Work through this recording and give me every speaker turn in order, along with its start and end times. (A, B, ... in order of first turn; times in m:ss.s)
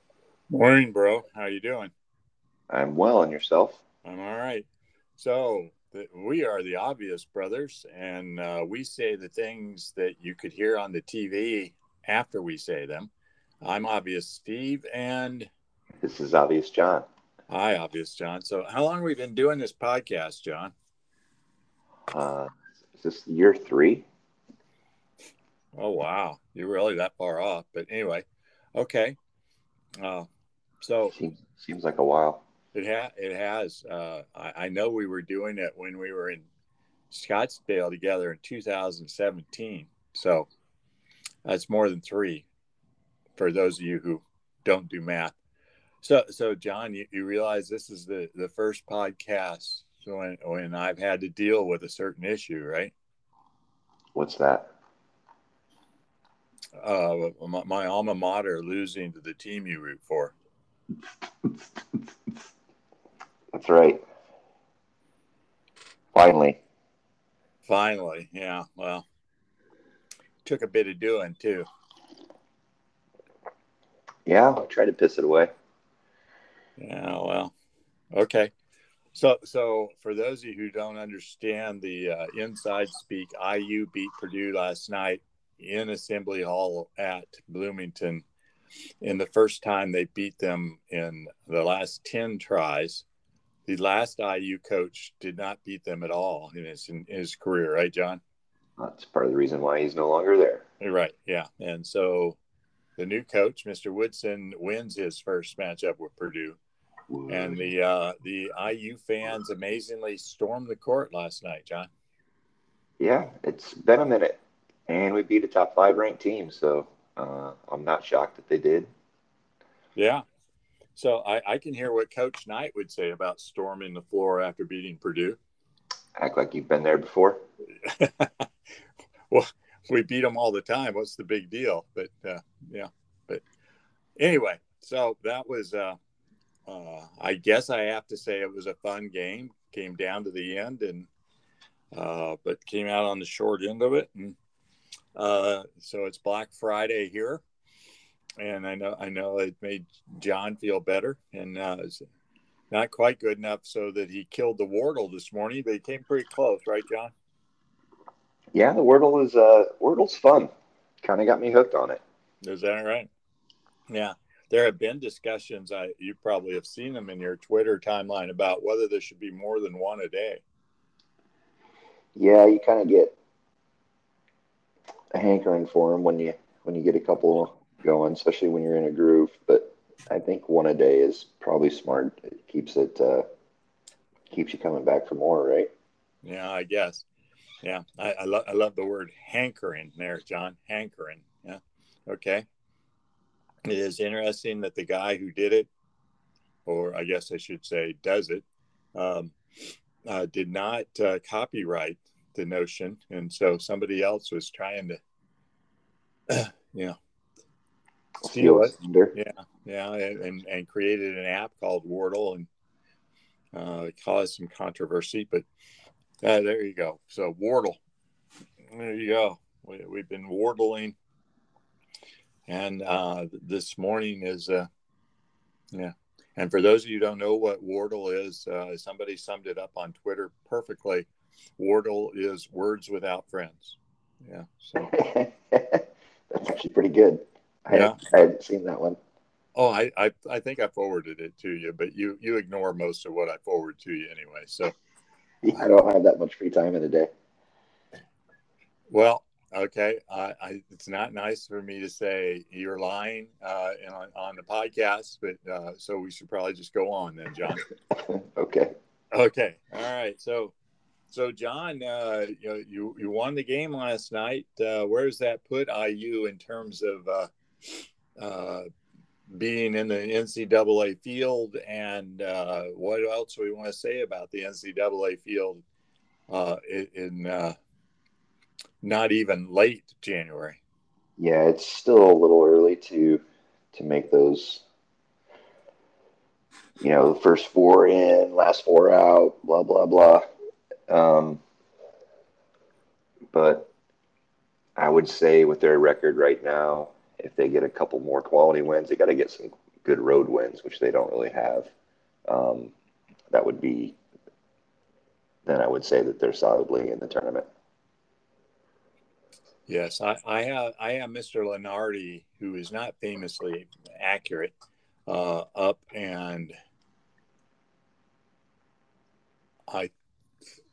0:00.5-0:01.9 A
0:02.7-0:03.8 B
0:04.0-0:04.7 A
0:05.2-0:13.1 A
0:13.6-0:15.5 A
0:16.0-0:17.1 B
0:17.5-0:20.7 A
0:22.1-0:24.1 B
0:25.8-0:29.2 A
0:30.0-0:30.3 A
0:30.8-0:31.1 A
0:31.1-0:32.4 B
0:32.7-0:36.4 A
0:37.1-0:40.5 A
0:41.4-0:42.5 A
0:43.4-0:45.4 A
0:46.0-0:52.9 A
0:54.2-0:54.7 B
0:56.8-1:00.3 A
1:01.4-1:02.1 B
1:03.5-1:04.0 B
1:06.1-1:06.6 B
1:07.7-1:09.1 A
1:10.4-1:11.7 A
1:14.3-1:15.5 B
1:16.8-1:17.5 A
1:18.1-1:18.5 A
1:19.1-1:28.2 A
1:29.0-1:33.0 A
1:33.7-1:38.2 A
1:38.8-1:40.6 B
1:40.8-1:42.4 A
1:43.0-1:46.6 A
1:47.1-1:47.7 B
1:47.3-1:51.9 A
1:53.0-1:58.9 B
2:00.0-2:00.2 A
2:01.0-2:05.4 A
2:06.2-2:07.4 B
2:07.8-2:08.5 A
2:09.3-2:13.4 A
2:14.2-2:16.0 A
2:16.7-2:21.1 A
2:21.9-2:24.4 A
2:25.2-2:27.4 A
2:28.4-2:32.0 A
2:32.7-2:37.1 A
2:38.6-2:42.0 B
2:42.4-2:43.1 A
2:43.9-2:50.4 A
2:52.2-2:53.2 B
2:55.1-3:03.2 B
3:04.3-3:05.7 B
3:06.2-3:07.0 A
3:07.6-3:12.4 A
3:13.7-3:15.7 A
3:16.7-3:25.0 A
3:26.3-3:27.0 A
3:28.2-3:29.2 B
3:28.2-3:32.5 A
3:33.5-3:35.4 A
3:36.2-3:37.8 A
3:38.7-3:41.0 A
3:42.5-3:44.7 A
3:45.7-3:51.1 A
3:51.6-3:54.9 A
3:54.8-3:59.0 B
3:57.7-3:58.0 A
3:59.6-4:04.8 A
4:05.4-4:07.1 B
4:08.9-4:17.7 A
4:17.9-4:18.7 B
4:19.1-4:20.5 A
4:21.1-4:28.7 A
4:29.3-4:35.6 A
4:36.3-4:37.6 A
4:38.8-4:40.6 A
4:41.2-4:43.2 B
4:43.7-4:44.6 B
4:46.8-4:50.2 B
4:50.9-4:51.4 B
4:53.3-4:53.7 B
4:54.8-5:01.7 B
5:02.3-5:02.7 B
5:03.3-5:04.0 B
5:05.5-5:07.5 B
5:09.7-5:14.5 A
5:15.1-5:16.5 A